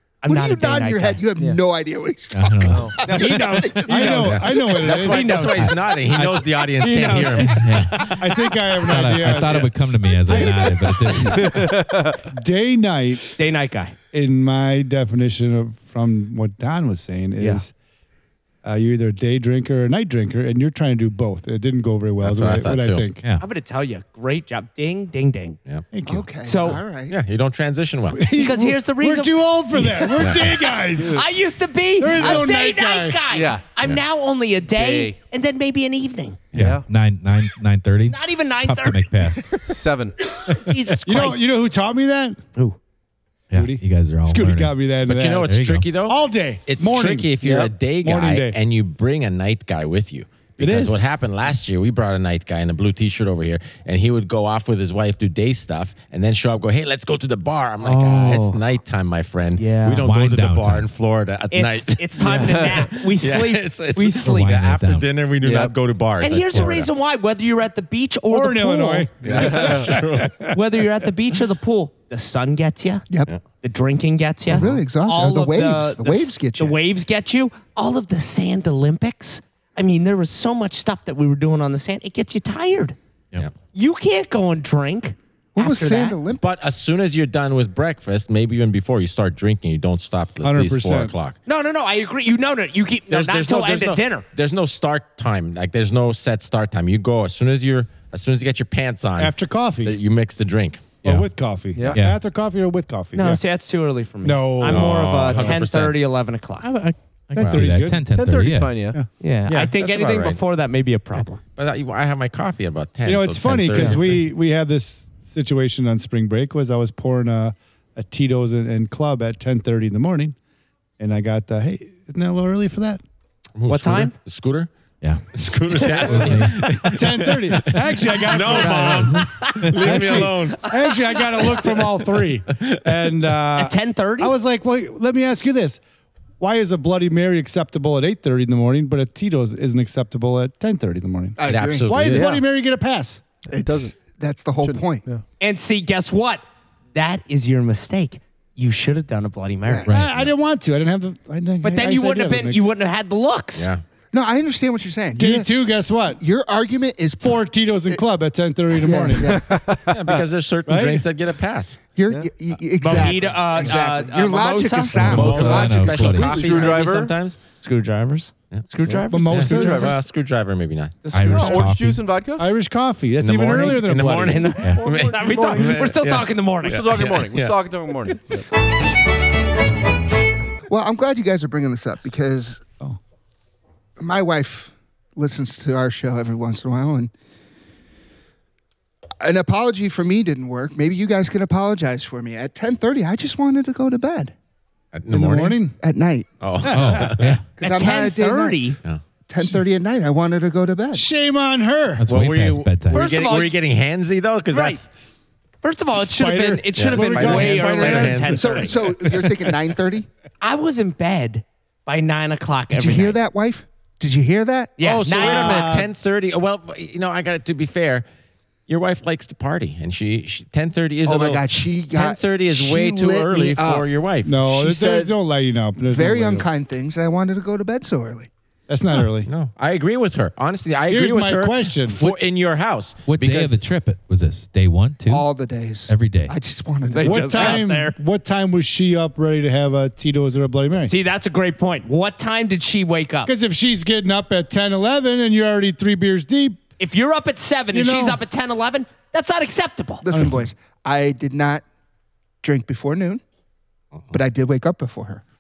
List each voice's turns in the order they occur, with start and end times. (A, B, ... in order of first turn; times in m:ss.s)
0:00.2-0:01.2 A
0:00.2-0:04.6 B
0:02.3-0:02.9 C
0:02.7-0:03.0 D
0:03.0-0:05.8 A
0:03.9-0:05.4 E
0:04.2-0:08.2 F
0:06.2-0:06.4 E
0:06.8-0:07.7 A
0:07.4-0:08.1 C
0:08.1-0:09.7 E
0:08.8-0:11.6 C
0:10.3-0:10.8 E
0:10.3-0:11.4 B
0:11.3-0:12.2 D
0:11.4-0:11.7 E
0:12.3-0:13.2 E
0:13.4-0:14.0 A
0:14.1-0:17.7 E
0:18.6-0:23.2 E
0:22.2-0:23.1 F
0:23.4-0:25.6 A
0:25.9-0:26.2 E
0:26.0-0:27.2 B
0:26.4-0:26.8 A
0:27.0-0:28.2 F
0:28.1-0:31.2 E
0:28.3-0:30.3 A
0:30.2-0:30.6 F
0:31.0-0:31.2 D
0:31.0-0:36.4 A
0:32.0-0:33.2 E
0:32.2-0:32.4 D
0:33.3-0:33.6 D
0:34.7-0:35.2 D
0:36.5-0:36.8 D
0:36.5-0:39.6 C
0:38.1-0:39.4 A
0:39.6-0:40.2 D
0:40.4-0:41.4 A
0:40.5-0:42.4 E
0:43.5-0:44.8 C
0:43.5-0:48.6 E
0:45.0-1:06.9 F
0:45.4-0:45.9 C
0:50.6-0:51.0 E
0:57.8-0:58.6 A
0:59.6-1:00.0 A
0:59.8-1:00.9 C
1:01.5-1:04.5 A
1:02.2-1:02.5 E
1:04.2-1:05.1 C
1:05.4-1:05.7 D
1:06.2-1:09.7 A
1:08.3-1:10.6 E
1:09.2-1:10.4 F
1:09.4-1:09.8 D
1:10.5-1:13.0 A
1:13.6-1:23.0 A
1:14.5-1:16.8 B
1:23.7-1:26.2 A
1:25.5-1:26.6 B
1:26.4-1:31.4 F
1:30.4-1:31.1 E
1:31.4-1:34.2 A
1:33.1-1:41.0 F
1:39.2-1:40.0 E
1:41.0-1:43.4 E
1:41.8-1:42.0 D
1:41.9-1:42.2 C
1:43.1-1:46.7 A
1:44.2-1:45.6 E
1:44.6-1:46.0 F
1:46.6-1:48.8 C
1:47.3-1:48.1 E
1:47.3-1:47.7 F
1:48.1-1:49.0 D
1:49.2-1:51.4 A
1:49.5-1:50.4 F
1:51.6-1:54.2 F
1:53.0-2:00.3 E
2:01.0-2:03.0 E
2:03.5-2:04.7 F
2:03.7-2:04.1 A
2:05.3-2:10.7 F
2:05.8-2:06.8 A
2:06.0-2:06.9 C
2:06.9-2:09.2 E
2:08.5-2:11.0 A
2:08.6-2:08.9 C
2:09.7-2:15.8 E
2:11.4-2:12.0 F
2:13.5-2:14.3 A
2:16.4-2:23.2 E
2:21.4-2:22.4 B
2:21.4-2:22.2 F
2:21.9-2:22.4 D
2:23.5-2:25.0 B
2:23.5-2:23.9 D
2:24.6-2:25.2 D
2:25.4-2:26.4 A
2:26.9-2:30.0 A
2:29.9-2:30.2 C
2:29.9-2:32.7 E
2:31.6-2:33.7 A
2:33.5-2:33.8 F
2:34.1-2:35.5 B
2:35.1-2:36.2 E
2:36.1-2:38.0 B
2:37.2-2:39.4 E
2:38.8-2:39.6 B
2:39.4-2:39.9 D
2:39.9-2:41.8 F
2:40.7-2:41.0 E
2:41.9-2:46.9 B
2:42.8-2:45.6 A
2:44.9-2:46.4 C
2:45.0-2:47.4 F
2:46.3-2:47.1 D
2:46.5-2:47.0 A
2:47.6-2:50.0 A
2:49.1-2:50.0 E
2:49.3-2:51.7 F
2:51.0-2:51.7 A
2:51.1-2:52.0 C
2:51.3-2:52.4 D
2:52.4-2:54.5 E
2:53.2-2:57.7 F
2:54.2-2:57.0 A
2:54.6-2:55.6 D
2:55.2-2:55.7 E
2:56.6-2:58.4 D
3:00.7-3:02.6 B
3:04.0-3:07.1 B
3:09.2-3:14.3 B
3:14.9-3:15.6 F
3:15.1-3:15.8 E
3:15.8-3:16.3 B
3:16.4-3:17.4 F
3:16.6-3:17.1 E
3:16.7-3:17.4 C
3:17.6-3:18.8 B
3:17.6-3:18.8 A
3:19.3-3:21.0 B
3:20.9-3:22.0 E
3:22.0-3:23.0 C
3:22.0-3:24.9 F
3:22.9-3:23.6 A
3:24.5-3:24.8 A
3:25.6-3:28.7 A
3:25.9-3:28.3 E
3:26.7-3:28.6 F
3:28.2-3:30.1 B
3:28.9-3:29.5 E
3:30.4-3:33.2 A
3:32.7-3:34.8 B
3:34.8-3:35.7 A
3:34.8-3:38.0 F
3:35.1-3:35.9 E
3:38.7-3:44.3 F
3:41.0-3:43.9 B
3:44.2-3:46.5 E
3:44.4-3:45.1 B
3:45.9-3:48.3 B
3:48.7-3:49.3 E
3:49.2-3:53.6 F
3:50.9-3:52.0 E
3:53.1-3:55.2 C
3:55.1-3:57.6 B
3:55.9-3:56.3 C
3:56.9-3:58.0 A
3:57.0-4:00.9 E
4:00.8-4:03.3 A
4:03.2-4:06.6 E
4:06.8-4:10.1 A
4:07.7-4:08.2 E
4:10.0-4:11.6 B
4:10.1-4:10.4 E
4:12.4-4:13.2 B
4:14.1-4:15.2 B